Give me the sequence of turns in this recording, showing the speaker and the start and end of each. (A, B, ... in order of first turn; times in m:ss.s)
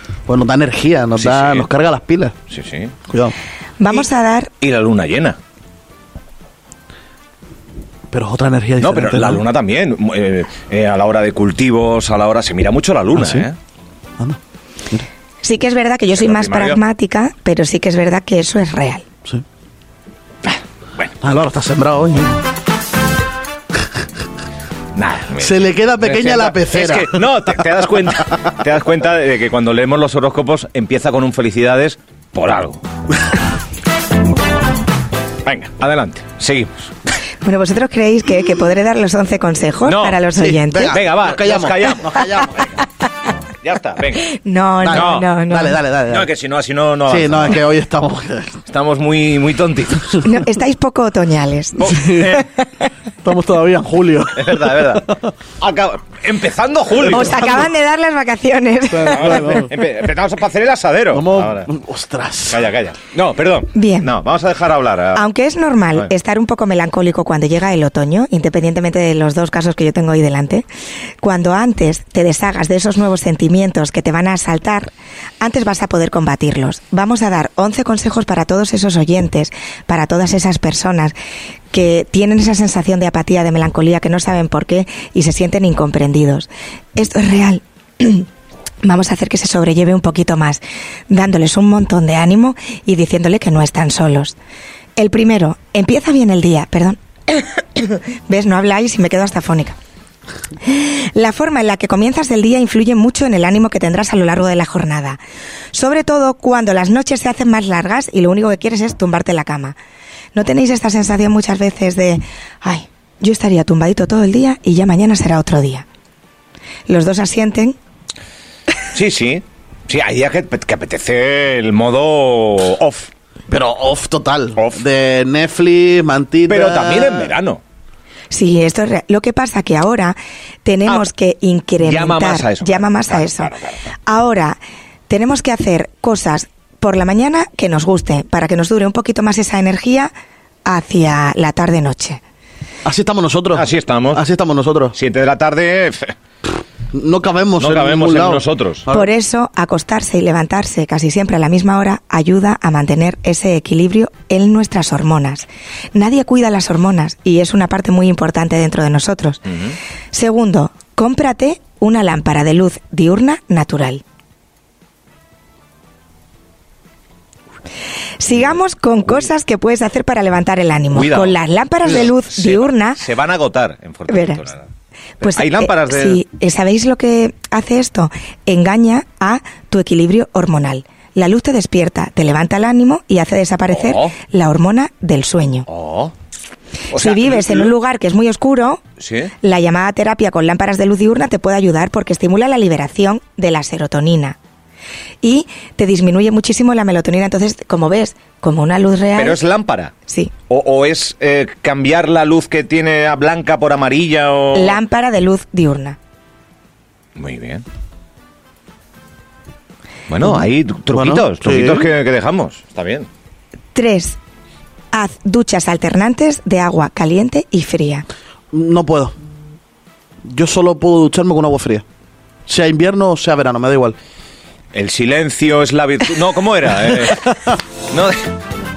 0:00.3-0:02.4 A
0:01.2-0:01.7 B
0:02.5-0:03.0 B
0:03.1-0:03.4 A
0:03.8-0:04.5 C
0:04.6-0:05.4 B
0:08.1-0:09.4 A
0:08.8-0:13.6 B
0:13.1-0:13.5 A
0:15.4-0:19.0 C
0:16.2-0:16.8 B
0:20.5-0:21.2 B
0:21.2-0:22.4 A
0:25.0-0:32.8 B
0:25.4-0:27.3 A
0:35.4-0:36.9 B
0:37.4-0:41.0 C
0:39.9-0:40.2 B
0:40.4-0:42.7 A
0:40.9-0:42.5 B
0:43.6-0:44.3 B
0:44.2-0:45.8 C
0:44.8-0:46.3 A
0:44.9-0:45.3 B
0:46.1-0:47.6 B
0:47.1-0:48.6 A
0:48.7-0:50.2 B
0:50.2-0:52.0 C
0:51.8-0:52.5 B
0:51.8-0:52.4 A
0:53.2-0:55.3 A
0:54.4-0:57.7 B
0:57.0-0:59.6 C
0:57.2-0:57.5 A
0:58.9-0:59.7 A
0:59.1-1:01.7 B
1:01.1-1:02.7 A
1:02.5-1:05.2 B
1:03.7-1:04.1 C
1:05.2-1:10.7 C
1:11.2-1:21.2 C
1:21.7-1:28.3 C
1:28.8-1:34.4 C
1:35.0-1:39.8 C
1:40.6-1:45.2 C
1:45.7-1:49.8 C
1:50.3-1:55.9 C
1:56.9-1:57.8 C
1:58.9-2:03.1 B
2:03.5-2:07.3 A
2:04.6-2:04.8 B
2:06.5-2:07.6 B
2:08.3-2:13.5 C
2:11.8-2:13.8 B
2:14.1-2:14.6 C
2:15.1-2:20.1 C
2:20.7-2:22.2 C
2:22.8-2:25.0 A
2:23.6-2:24.2 B
2:25.0-2:26.2 B
2:26.9-2:29.1 A
2:27.6-2:28.9 B
2:28.9-2:39.6 C
2:40.1-2:44.0 C
2:48.2-2:53.0 C
2:50.9-2:54.7 B
2:54.1-2:54.4 C
2:55.2-2:56.2 B
2:55.2-3:05.7 C
3:03.7-3:04.2 B
3:05.7-3:06.1 B
3:06.9-3:07.7 B
3:06.9-3:08.8 C
3:09.0-3:09.3 B
3:09.4-3:14.4 C
3:15.2-3:19.4 C
3:19.2-3:19.9 B
3:20.1-3:20.3 C
3:20.5-3:24.8 B
3:24.5-3:26.0 C
3:27.2-3:27.6 B
3:30.1-3:33.1 B
3:30.9-3:31.9 A
3:33.8-3:34.2 C
3:34.9-3:38.1 C
3:38.5-3:39.1 A
3:40.2-3:41.8 A
3:42.5-3:44.0 A
3:44.7-3:48.3 B